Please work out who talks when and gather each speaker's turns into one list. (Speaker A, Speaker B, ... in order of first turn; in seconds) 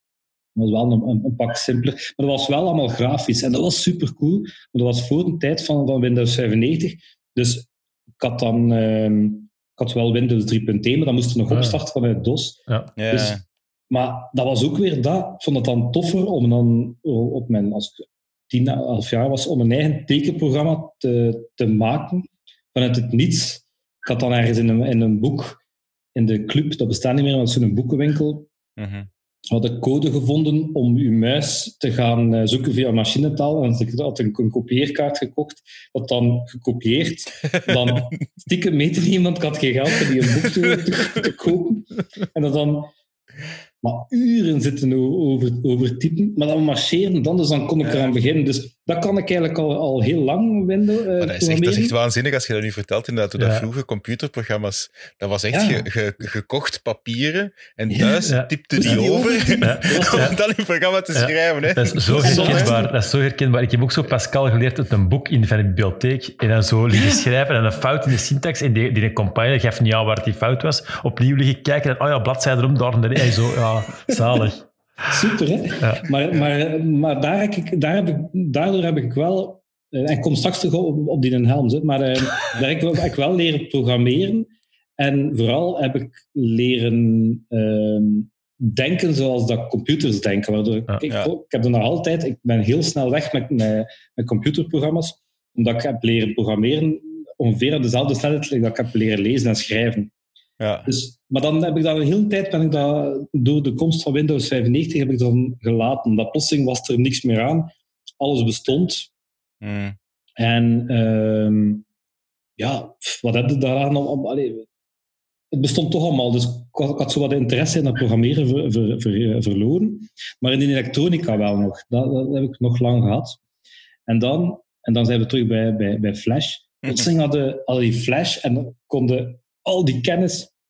Speaker A: 0.6-13.4, 13.9-25.6, 26.1-28.5, 29.5-42.9, 43.8-52.0, 55.5-55.9, 57.9-60.4, 62.2-62.9, 75.1-100.1, 100.9-109.1, 110.4-111.8, 112.6-114.7, 115.5-123.4, 124.1-130.5
Speaker B: 11.5-11.8, 53.4-53.7, 58.2-59.0, 59.6-60.4, 61.1-74.7, 75.8-76.0
Speaker C: 13.0-13.4, 28.8-29.1, 40.4-41.2, 47.8-48.1, 51.2-62.7, 100.6-100.9, 109.6-110.0